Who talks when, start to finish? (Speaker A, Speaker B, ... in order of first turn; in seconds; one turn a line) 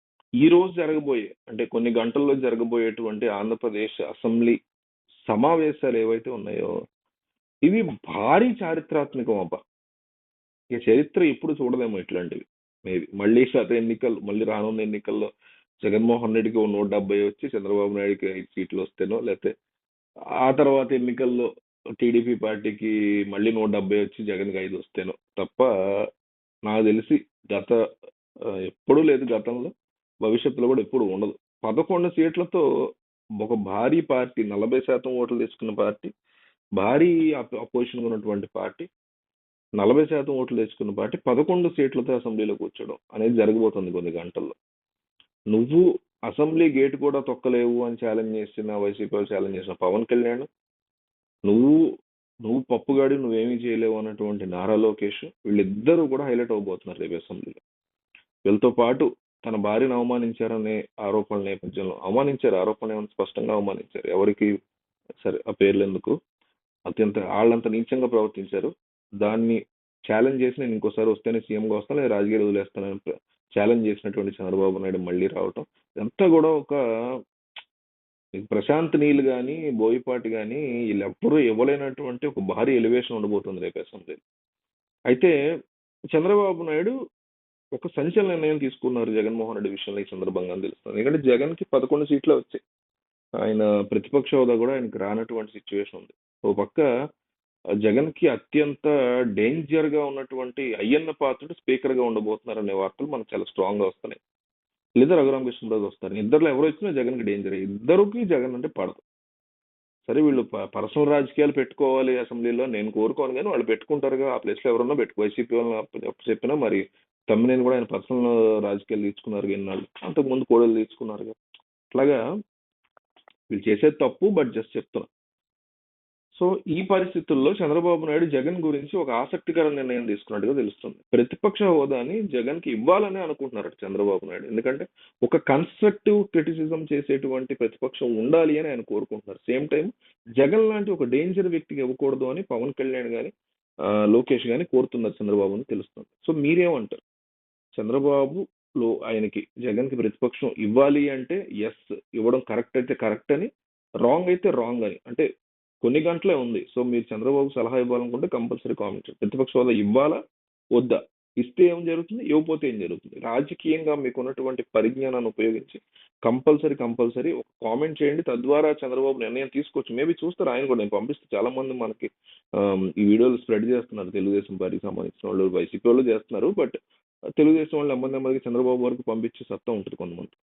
Speaker A: 0.4-4.6
Speaker A: 5.3-6.7
Speaker A: 7.7-9.6
Speaker A: 10.8-15.3
Speaker A: 15.8-19.5
Speaker A: 20.5-21.5
Speaker A: 22.0-25.7
Speaker A: 26.7-27.8
Speaker A: 28.7-29.7
Speaker A: 30.2-32.6
Speaker A: 33.4-36.1
Speaker A: 36.8-38.9
Speaker A: 39.8-44.5
Speaker A: 45.5-50.5
Speaker A: 51.5-51.8
Speaker A: 52.5-57.6
Speaker A: 58.5-64.5
Speaker A: 65.2-66.2
Speaker A: 66.9-68.7
Speaker A: 69.2-69.6
Speaker A: 70.1-76.8
Speaker A: 78.4-84.2
Speaker A: 86.2-86.9
Speaker A: 87.8-92.6
Speaker A: 93.4-96.9
Speaker A: 97.8-104.2
Speaker A: 105.0-109.0
Speaker A: 110.1-121.4
Speaker A: 121.9-122.2
Speaker A: 123.5-125.1
Speaker A: 126.3-143.3
Speaker A: 144.1-147.0
Speaker A: 147.8-153.5
Speaker A: 154.1-155.2
Speaker A: 155.8-160.2
Speaker A: 160.8-176.7
Speaker A: 177.4-180.3